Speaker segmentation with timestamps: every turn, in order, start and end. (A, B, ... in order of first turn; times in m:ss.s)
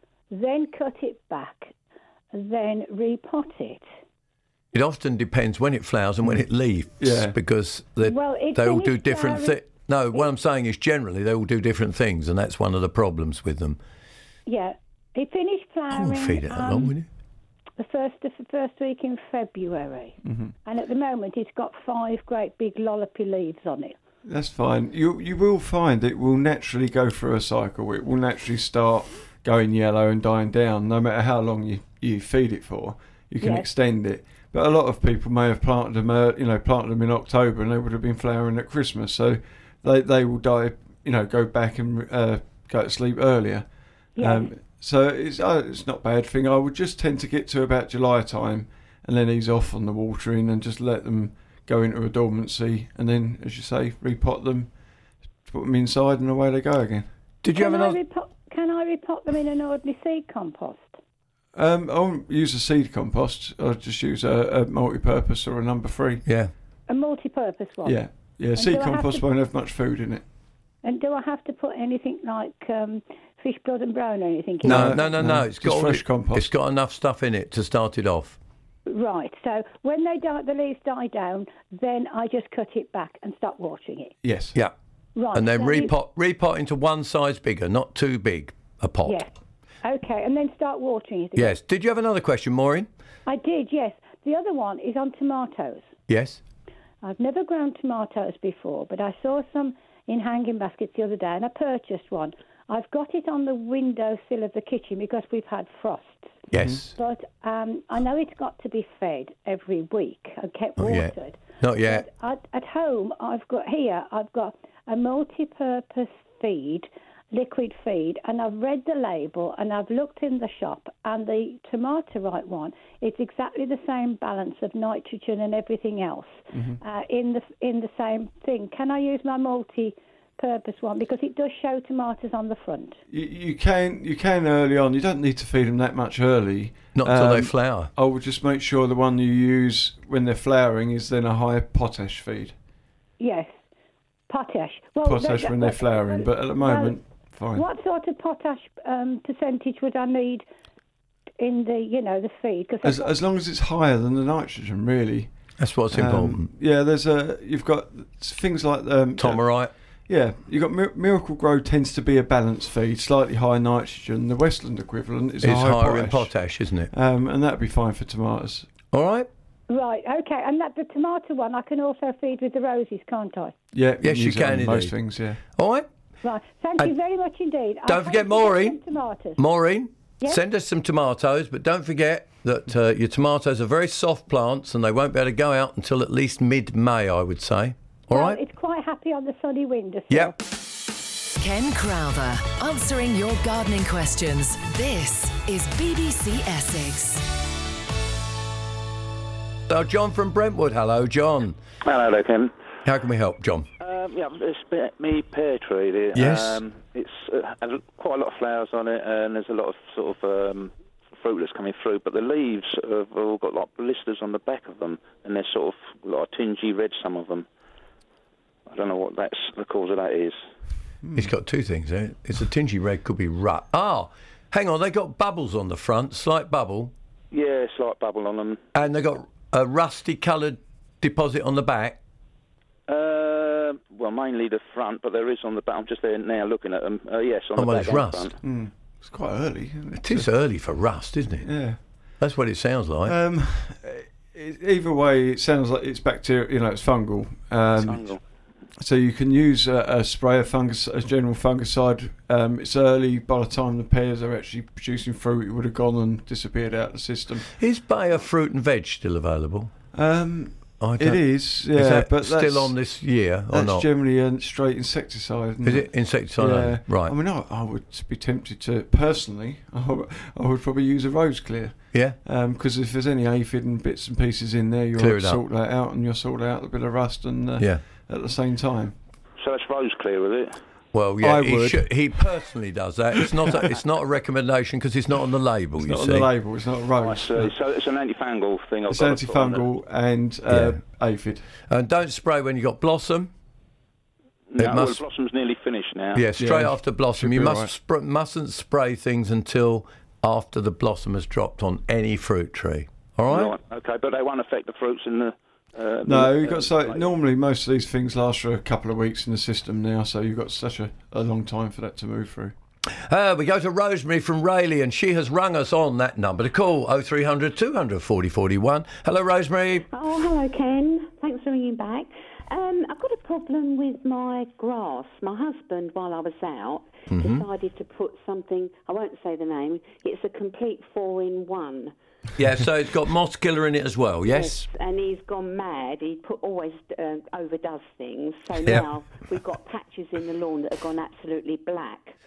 0:00.3-0:01.7 A
0:02.3-0:03.9 A
0:04.7-0:13.8 B
0:07.0-0:07.4 C
0:08.0-0:09.6 A
0:14.5-0:16.9 A
0:15.9-0:17.1 B
0:17.8-0:24.0 A
0:20.2-0:20.5 C
0:24.2-0:43.7 C
0:33.4-0:33.7 A
0:44.2-0:44.5 A
0:44.2-0:54.7 C
0:55.4-0:57.1 C
0:57.4-0:58.0 B
0:57.5-1:01.0 A
1:01.5-1:06.2 C
1:06.2-1:06.5 B
1:06.9-1:08.0 A
1:07.8-1:10.2 C
1:08.5-1:09.3 A
1:10.8-1:15.1 A
1:14.6-1:16.5 C
1:14.6-1:18.4 B
1:18.9-1:24.2 A
1:24.2-1:24.6 C
1:25.2-1:25.9 A
1:25.3-1:29.2 B
1:29.0-1:29.3 A
1:29.8-1:31.6 A
1:31.4-1:32.9 B
1:33.2-1:35.9 A
1:36.1-1:36.4 B
1:37.0-2:13.0 A
1:46.5-1:46.9 B
1:46.6-1:46.8 C
1:50.8-1:52.0 B
2:06.5-2:06.8 C
2:13.1-2:22.5 C
2:16.9-2:17.9 B
2:23.2-2:23.6 A
2:24.3-2:27.0 A
2:25.0-2:27.6 C
2:27.5-2:30.4 A
2:31.4-2:33.2 A
2:32.8-2:35.3 C
2:35.6-2:36.5 B
2:35.9-2:39.5 C
2:39.2-2:39.7 B
2:40.1-2:46.3 C
2:45.4-2:46.9 B
2:46.9-2:48.7 C
2:48.9-2:49.3 B
2:49.7-2:53.6 A
2:53.7-2:55.4 C
2:54.0-2:54.9 B
2:55.6-2:55.9 B
2:56.2-2:59.4 A
2:57.9-2:58.8 B
2:59.4-3:08.4 B
3:08.1-3:10.4 A
3:11.4-3:17.3 D
3:19.7-3:21.6 B
3:21.8-3:22.5 E
3:22.8-3:23.7 B
3:23.8-3:37.4 E
3:26.1-3:26.6 B
3:38.7-3:40.4 E
3:41.0-3:41.3 C
3:41.1-3:46.9 B
3:47.3-3:48.6 E
3:48.7-3:52.0 B
3:52.9-3:58.4 E
3:57.6-3:58.3 B
3:58.4-4:00.3 C
4:00.0-4:01.5 B
4:01.4-4:01.8 C
4:02.2-4:03.1 B
4:03.0-4:08.1 C
4:07.7-4:08.2 E
4:08.8-4:17.4 C
4:17.6-4:19.7 B
4:19.9-4:22.7 C
4:20.8-4:23.9 B
4:23.5-4:38.9 C
4:25.6-4:27.1 B
4:35.0-4:35.4 B
4:39.4-4:40.6 E
4:40.9-4:46.3 B
4:41.2-4:41.9 C
4:43.2-4:43.6 C
4:45.8-4:47.5 C
4:46.9-4:49.7 E
4:48.9-4:51.4 C
4:50.5-4:50.8 B
4:51.7-4:53.3 B
4:54.5-4:56.3 E
4:54.6-4:55.0 B
4:56.1-5:03.5 B
4:56.4-4:57.7 C
5:03.3-5:07.1 E
5:06.0-5:12.5 C
5:13.1-5:19.9 B
5:19.9-5:31.9 F
5:27.1-5:27.4 B
5:32.4-5:34.7 B
5:34.3-5:42.1 F